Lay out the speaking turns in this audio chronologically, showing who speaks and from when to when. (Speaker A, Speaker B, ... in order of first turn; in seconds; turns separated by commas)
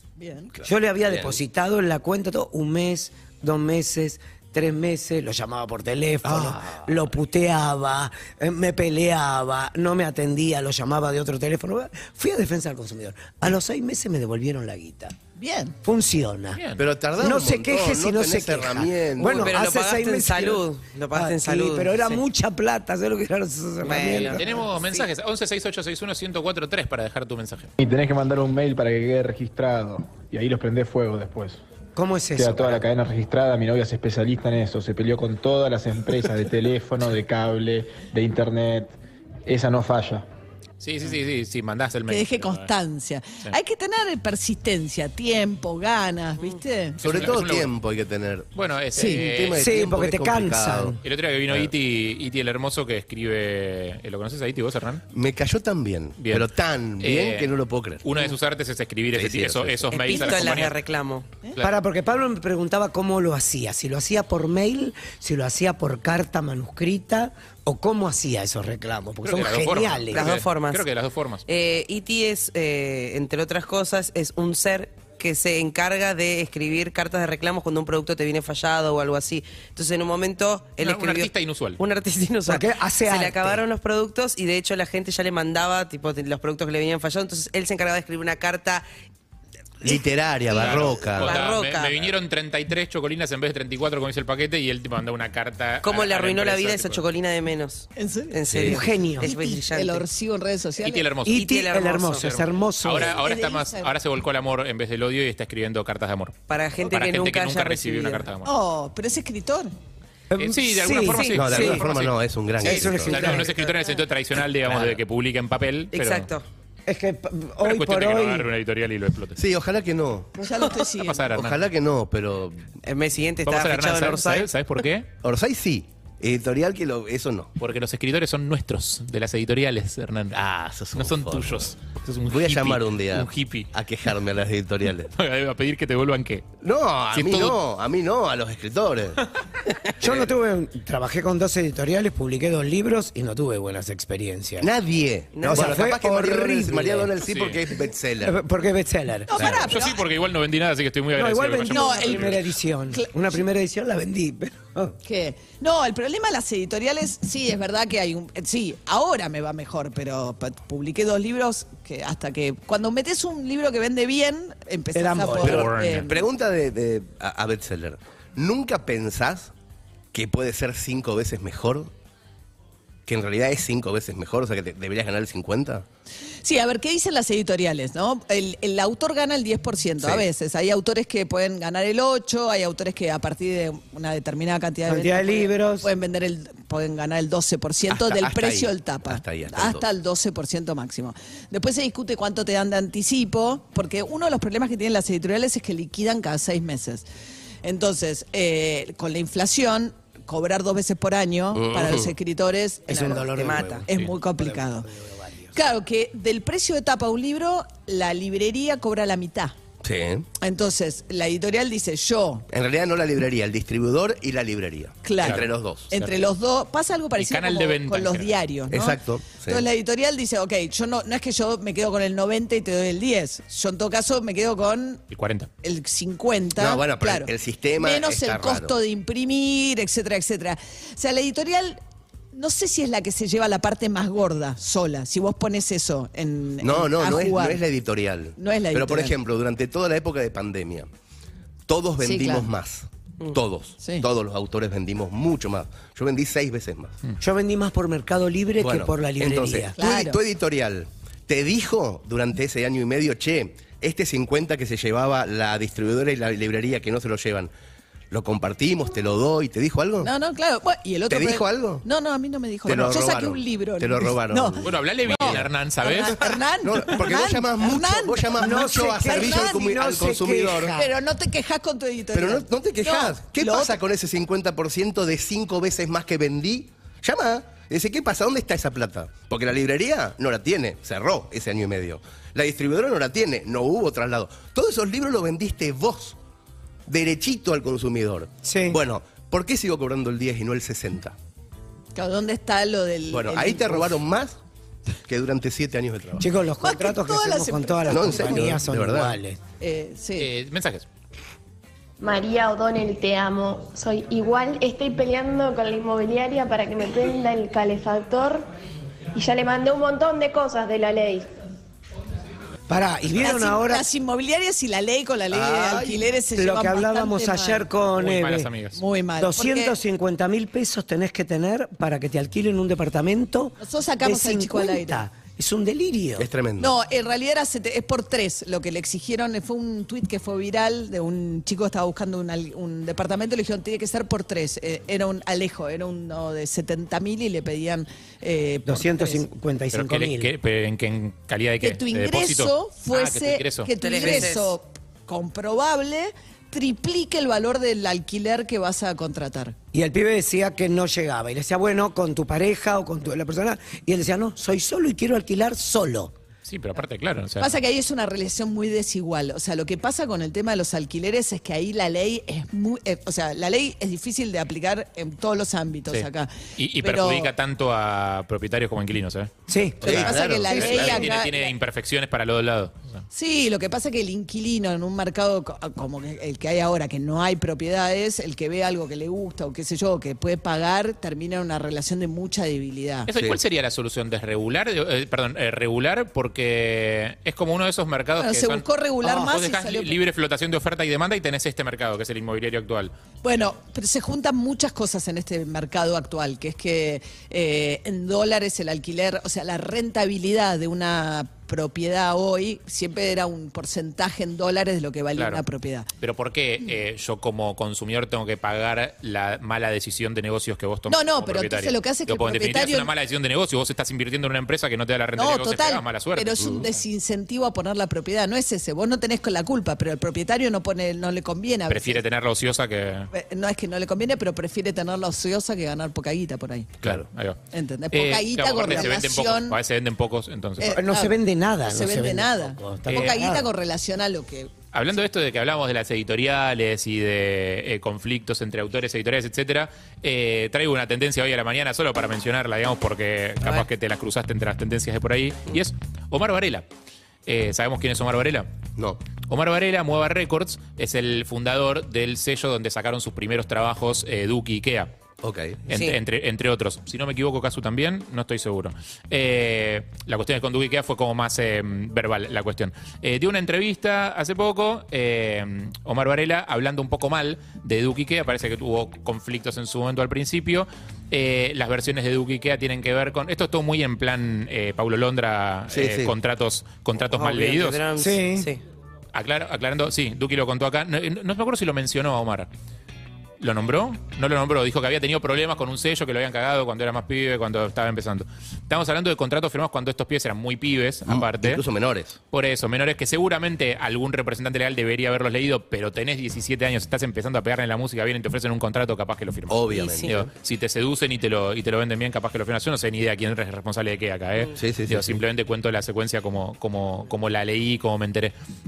Speaker A: 0.2-0.5, Speaker B: 0.6-1.4, Speaker C: 0.6-15.2, Speaker B: 6.2-7.0, Speaker A: 15.4-15.8, Speaker C: 15.8-16.6, Speaker D: 16.6-16.9, Speaker B: 16.8-19.6, Speaker C: 17.2-24.6, Speaker E: 19.2-22.2, Speaker E: 23.8-25.1, Speaker D: 24.3-27.7, Speaker F: 27.8-31.6, Speaker C: 32.0-32.8, Speaker F: 32.4-39.0, Speaker F: 39.5-40.3, Speaker D: 40.8-42.7, Speaker A: 42.1-47.3, Speaker D: 47.0-47.7, Speaker B: 47.0-51.0, Speaker D: 48.5-49.8, Speaker C: 49.5-51.0, Speaker D: 51.0-55.0, Speaker B: 55.1-58.0, Speaker D: 56.2-56.5, Speaker D: 57.0-60.8, Speaker B: 59.1-59.9, Speaker E: 59.9-61.3, Speaker C: 61.6-70.3, Speaker D: 69.2-71.4, Speaker E: 70.1-70.9, Speaker E: 71.5-88.8, Speaker D: 80.8-81.8, Speaker C: 82.5-83.6, Speaker B: 89.8-91.4, Speaker E: 90.5-92.1, Speaker D: 90.5-97.0, Speaker E: 95.8-100.1, Speaker A: 98.0-98.4, Speaker B: 98.5-98.8, Speaker C: 98.6-99.5, Speaker A: 99.3-101.1, Speaker D: 100.8-101.5, Speaker C: 101.3-103.2, Speaker E: 101.3-102.3, Speaker D: 102.2-108.5, Speaker A: 103.2-103.9, Speaker E: 106.5-108.3, Speaker A: 108.5-109.7, Speaker C: 110.3-111.8, Speaker D: 110.4-116.3, Speaker E: 111.1-111.8, Speaker B: 111.4-113.4, Speaker C: 112.6-113.6, Speaker E: 112.7-113.0, Speaker E: 115.9-116.5, Speaker C: 116.9-118.5, Speaker D: 117.6-119.4, Speaker B: 119.4-120.3, Speaker A: 120.4-121.3, Speaker D: 121.0-121.6, Speaker B: 121.3-122.7, Speaker E: 122.8-124.5, Speaker D: 123.5-125.1, Speaker B: 125.2-127.5, Speaker D: 127.6-130.4, Speaker B: 130.3-131.7, Speaker D: 130.9-133.7, Speaker B: 132.3-135.1, Speaker D: 135.1-136.5, Speaker B: 136.6-139.2, Speaker D: 137.1-137.6, Speaker C: 140.0-144.7, Speaker B: 144.6-148.4, Speaker E: 145.3-145.8, Speaker C: 145.5-147.2, Speaker D: 147.2-147.6, Speaker C: 148.2-149.7, Speaker A: 149.3-150.0, Speaker D: 149.4-152.4, Speaker C: 151.2-155.0, Speaker A: 151.7-152.3, Speaker A: 152.9-153.4, Speaker A: 155.0-166.2, Speaker C: 164.9-165.6, Speaker D: 165.4-166.1, Speaker B: 165.4-169.5, Speaker B: 170.1-171.9, Speaker B: 173.1-175.8, Speaker A: 176.4-197.1, Speaker B: 180.0-180.3, Speaker C: 184.9-185.9, Speaker B: 187.9-189.8, Speaker A: 197.6-204.9, Speaker B: 201.5-202.1, Speaker C: 202.9-205.6, Speaker E: 203.3-203.8, Speaker A: 205.5-209.6, Speaker B: 209.8-210.3, Speaker A: 210.4-212.5, Speaker B: 212.5-215.9, Speaker A: 215.0-225.0, Speaker D: 215.2-216.2, Speaker D: 217.2-218.3, Speaker B: 218.7-219.7, Speaker D: 225.1-225.5, Speaker A: 225.6-231.8, Speaker B: 226.6-228.8, Speaker A: 232.3-237.6, Speaker B: 236.6-240.9, Speaker A: 238.4-239.2, Speaker B: 241.7-247.0, Speaker A: 242.0-242.5, Speaker A: 243.8-244.1, Speaker C: 247.2-249.8, Speaker B: 248.6-257.5, Speaker A: 249.8-250.2, Speaker B: 258.1-260.1, Speaker A: 260.0-269.6, Speaker B: 261.1-261.9, Speaker B: 262.6-265.5, Speaker D: 264.6-266.2, Speaker B: 266.6-270.7, Speaker C: 268.4-270.9, Speaker A: 270.8-273.8, Speaker B: 272.1-286.2, Speaker B: 286.9-291.1, Speaker C: 288.4-288.8, Speaker A: 291.9-294.0, Speaker B: 293.1-294.4, Speaker B: 295.1-296.3, Speaker C: 296.2-299.4, Speaker A: 296.6-298.4, Speaker B: 297.9-299.2, Speaker A: 299.6-300.3, Speaker D: 300.2-300.9, Speaker G: 302.0-308.5, Speaker G: 309.1-311.3, Speaker C: 312.7-313.9, Speaker A: 313.2-317.7, Speaker B: 315.3-316.1, Speaker C: 316.4-318.5, Speaker D: 318.0-318.8, Speaker A: 318.8-319.8, Speaker C: 319.2-326.3, Speaker A: 323.6-325.1, Speaker B: 326.2-326.7, Speaker A: 326.6-339.2, Speaker C: 338.7-340.3, Speaker D: 339.7-344.2, Speaker A: 341.6-349.6, Speaker E: 343.8-344.5, Speaker C: 349.7-356.1, Speaker D: 356.5-357.6, Speaker A: 357.4-367.3, Speaker D: 365.9-369.3, Speaker C: 369.5-370.1, Speaker B: 369.8-371.1, Speaker A: 369.8-371.5, Speaker D: 370.5-373.0, Speaker A: 373.1-383.1, Speaker D: 383.1-392.9, Speaker A: 388.2-390.0, Speaker A: 393.2-405.9, Speaker D: 405.2-405.4, Speaker D: 406.0-416.7, Speaker A: 410.9-412.9, Speaker A: 415.2-422.0, Speaker B: 416.4-416.7, Speaker D: 421.7-423.1, Speaker A: 423.1-426.7, Speaker D: 426.8-427.4, Speaker A: 427.5-429.6, Speaker D: 427.9-430.8, Speaker A: 430.6-434.5, Speaker C: 430.7-433.5, Speaker D: 432.9-433.2, Speaker D: 434.7-446.7, Speaker D: 447.3-448.5, Speaker D: 449.3-454.9, Speaker B: 455.2-455.7, Speaker D: 455.7-477.9, Speaker E: 455.7-456.0, Speaker B: 475.7-476.1, Speaker E: 477.1-478.6, Speaker C: 478.0-478.5, Speaker D: 479.1-482.5, Speaker D: 483.4-491.6, Speaker B: 491.1-492.2, Speaker D: 492.3-508.3, Speaker B: 499.5-500.1, Speaker E: 499.7-500.2, Speaker B: 504.6-505.2